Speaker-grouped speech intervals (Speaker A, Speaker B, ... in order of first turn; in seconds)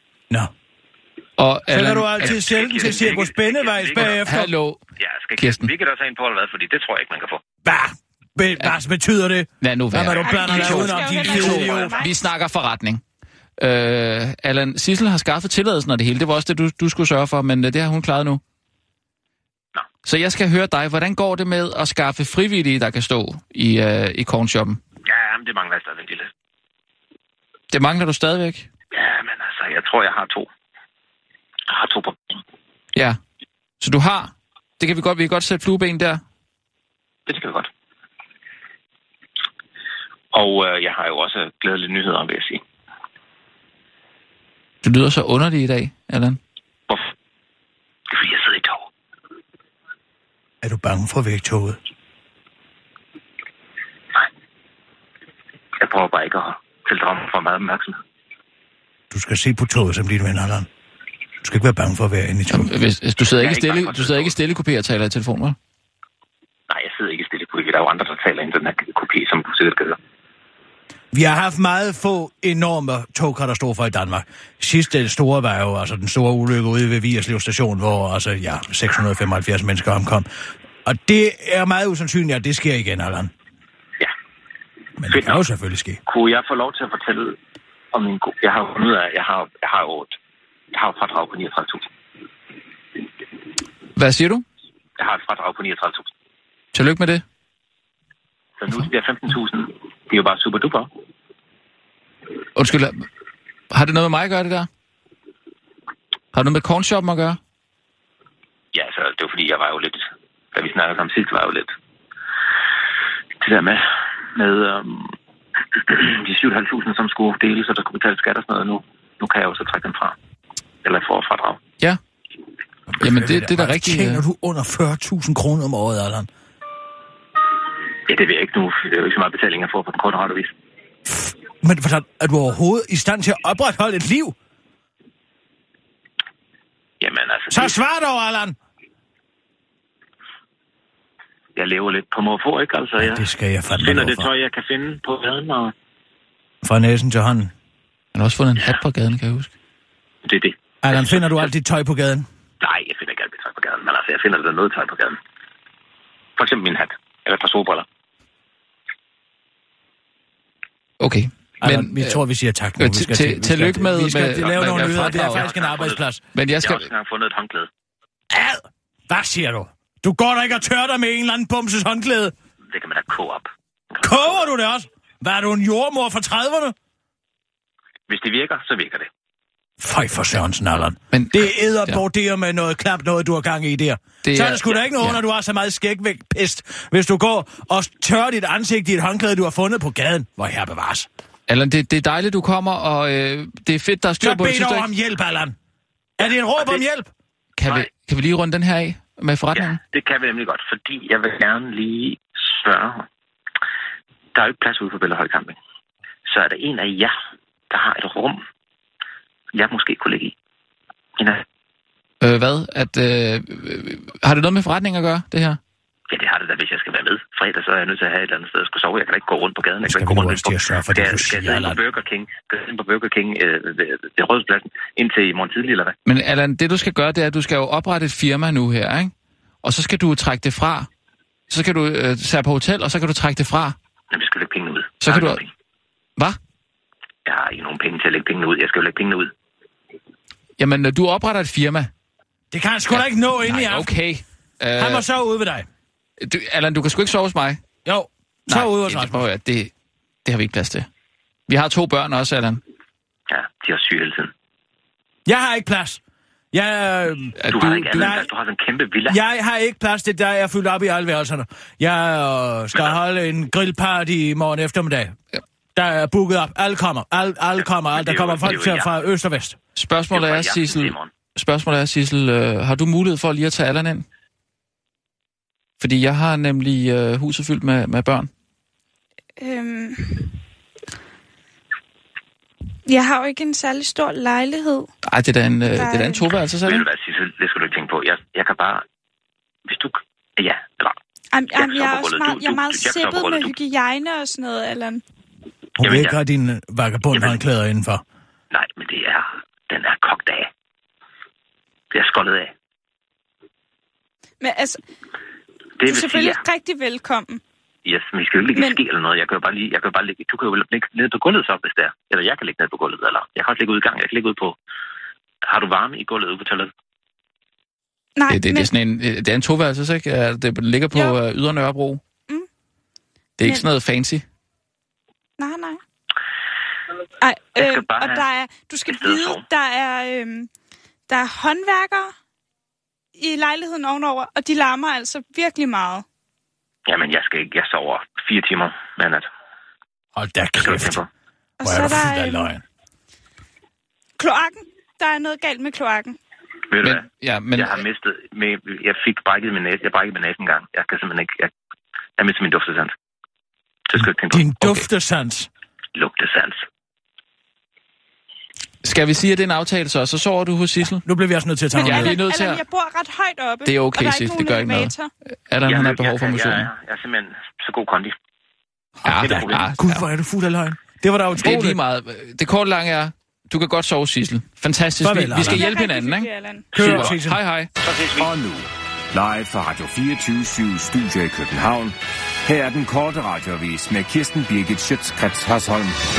Speaker A: 1.4-2.4, 4.0-4.8, 5.4-5.7, 9.6-13.0, 13.6-18.4, 20.1-24.8, 27.7-28.7, 33.8-36.2, 44.8-46.4, 62.5-65.6, 94.0-94.4, 96.7-97.2, 102.6-103.0, 103.7-104.7, 106.3-107.4, 123.0-124.2, 148.1-149.5, 161.0-162.2, 162.8-165.5, 166.3-166.9, 181.1-182.0, 184.2-185.2, 191.5-194.9, 197.6-199.8, 212.2-215.6, 226.1-230.9, 231.5-233.8, 235.0-235.4, 240.6-241.9, 242.9-245.1, 246.2-247.6, 248.5-249.7, 250.2-250.9, 251.5-252.6, 257.4-258.2, 269.8-274.1, 275.8-278.3, 285.1-286.9, 318.3-322.0, 323.4-324.2, 346.8-347.8, 358.8-361.0, 361.8-362.6, 363.6-364.9, 365.5-366.7, 369.0-370.1, 371.3-377.7
Speaker B: 1.7-4.5, 7.7-12.0, 50.6-51.8, 59.1-60.7, 61.4-62.7, 71.1-80.3, 80.8-83.3, 85.0-86.0, 122.9-126.3, 131.1-134.3, 137.5-138.6, 143.0-144.3, 146.6-147.5, 150.8-152.3, 161.6-166.2, 168.3-172.3, 174.0-176.8, 179.8-191.1, 194.2-195.6, 196.2-197.1, 219.8-221.8, 242.5-243.9, 244.8-245.7, 247.8-249.3, 255.3-256.0, 256.5-257.4, 257.9-258.3, 259.1-265.1, 265.8-269.6, 295.8-298.0, 340.1-341.0, 341.6-342.6, 354.0-355.5, 361.1-362.2, 369.1-371.8, 375.0-375.7, 376.7-377.4
Speaker C: 2.2-4.2, 5.0-7.4, 25.1-26.3, 28.9-30.5, 31.7-32.4, 37.3-37.7, 40.3-42.6, 48.1-48.9, 55.8-58.0, 63.2-64.3, 66.7-70.0, 85.1-85.4, 86.1-87.4, 87.9-90.2, 90.7-91.9, 95.0-96.1, 98.6-100.9, 108.7-111.7, 113.4-115.2, 115.8-120.2, 120.8-121.6, 128.1-130.5, 137.0-137.8, 141.6-145.7, 150.2-151.5, 152.6-155.2, 156.4-157.9, 164.4-166.0, 166.6-167.7, 172.7-174.5, 178.1-179.1, 196.2-196.8, 199.5-203.1, 204.3-205.6, 206.3-207.1, 207.7-208.4, 209.5-210.3, 211.2-211.4, 216.1-226.0, 234.1-235.5, 237.3-239.3, 253.3-254.3, 257.5-259.2, 267.9-268.9, 270.1-271.1, 286.6-288.9, 289.7-291.0, 291.5-293.5, 295.8-296.1, 298.5-300.5, 301.9-302.5, 305.8-306.4, 307.9-314.6, 315.4-316.7, 327.6-328.2, 328.9-329.4, 336.9-339.3, 340.6-341.1, 346.7-351.5, 352.2-352.9, 353.9-354.6, 355.9-356.6, 365.6-368.1, 369.1-369.7, 377.8-378.3
Speaker D: 10.2-12.2, 279.4-280.3, 282.9-284.9, 285.7-286.3, 291.3-295.0, 304.4-304.8, 305.9-307.4, 318.2-318.7, 325.4-325.8, 327.2-330.5, 331.1-332.1, 333.2-336.1, 341.6-342.5, 344.2-346.2, 361.7-365.1, 375.4-377.1
Speaker E: 378.2-381.9, 382.5-386.0